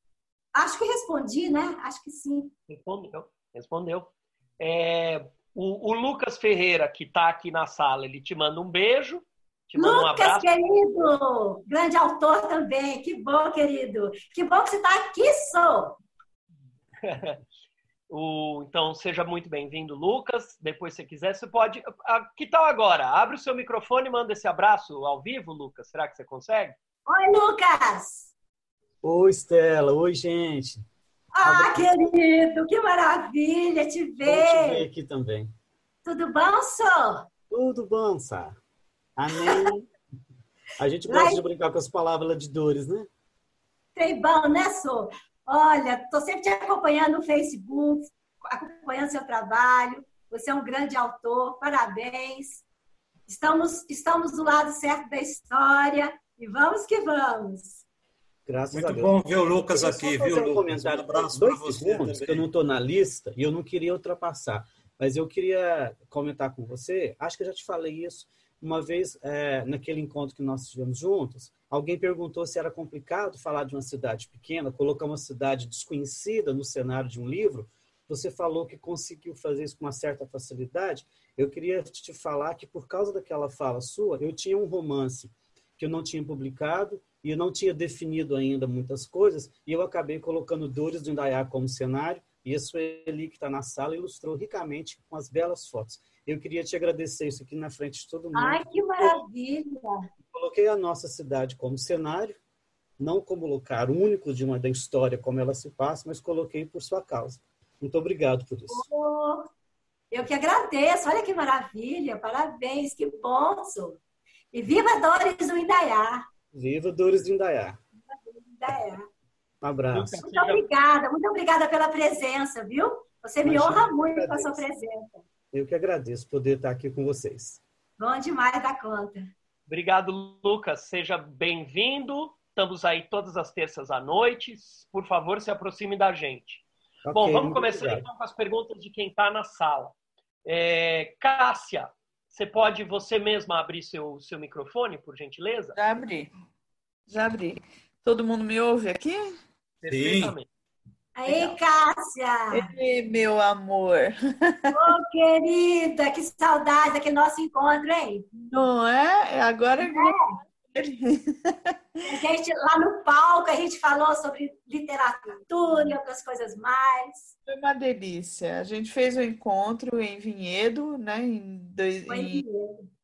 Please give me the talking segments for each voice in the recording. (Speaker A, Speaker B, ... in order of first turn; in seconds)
Speaker A: 0.6-2.5, 9.7-16.0, 27.1-28.3, 31.3-34.9, 36.0-37.3, 41.1-41.4, 44.0-52.6, 53.3-57.8, 98.3-100.0, 108.7-109.5, 110.1-114.0, 114.5-116.3, 118.3-119.1, 120.2-125.2, 128.0-129.3, 151.2-152.7, 154.7-158.2, 159.8-160.3, 162.1-167.3, 172.1-172.8
Speaker B: 2.7-10.5, 17.0-17.4, 18.1-26.8, 119.9-120.6, 129.7-145.8, 149.8-150.5
Speaker C: 29.0-30.9, 31.4-31.9, 34.2-35.5, 37.5-38.6, 39.2-39.9, 40.8-43.1, 58.5-59.1, 59.7-99.2, 100.3-102.4, 103.0-108.9, 116.5-117.8, 119.6-120.2, 123.4-124.6, 125.5-127.6, 137.1-138.1
Speaker D: 58.7-62.5, 149.9-150.3
Speaker E: 145.7-146.3, 147.1-149.3, 151.3-151.6, 152.5-154.7, 158.4-161.7, 167.5-172.4